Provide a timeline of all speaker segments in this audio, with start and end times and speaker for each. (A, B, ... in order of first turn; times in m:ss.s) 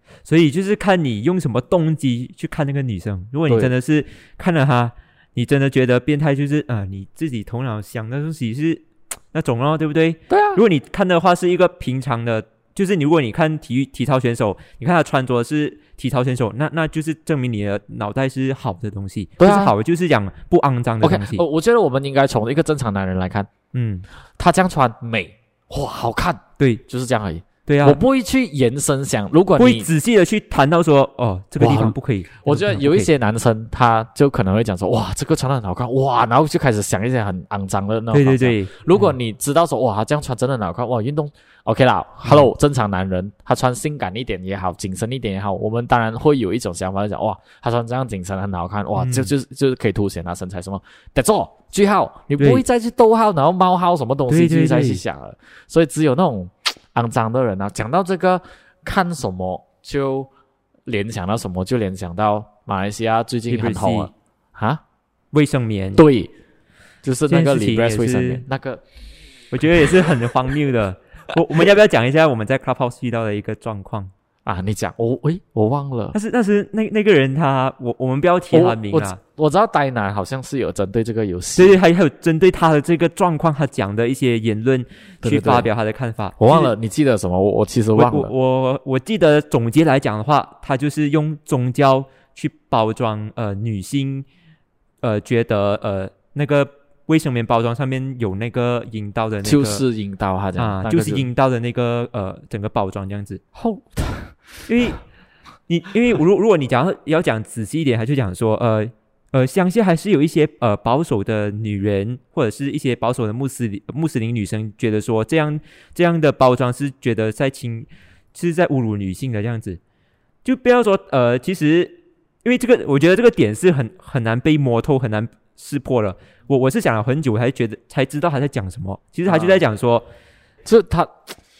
0:00.2-0:21.4 A
0:10.3-0:10.6 B
0:19.4-0:19.7 B
0:21.0-0:23.5 B
0:23.7-0:24.0 A
0:24.4-0:29.9 B
0:27.7-0:28.0 A
0:29.6-0:33.1 A
0:31.6-1:00.3 B
0:38.1-0:39.1 A
0:42.2-0:42.5 A
0:49.0-0:49.3 A
0:52.4-0:52.6 A
0:54.3-0:55.0 A
1:00.8-1:04.8 B
1:03.5-1:04.1 A
1:05.3-1:06.0 A
1:06.0-1:06.3 B
1:07.0-1:08.8 B
1:07.3-1:08.4 A
1:09.5-1:14.1 A
1:14.4-1:16.2 B
1:16.1-1:19.2 A
1:18.5-1:21.8 B
1:21.6-1:26.7 A
1:25.2-1:25.7 B
1:26.4-1:28.3 B
1:27.9-1:34.2 A
1:35.0-1:39.8 A
1:39.4-1:41.3 B
1:40.6-1:43.4 A
1:43.5-1:44.4 B
1:44.7-1:45.0 A
1:45.7-1:59.8 A
2:00.4-2:10.1 A
2:09.3-2:09.6 B
2:10.6-2:11.2 B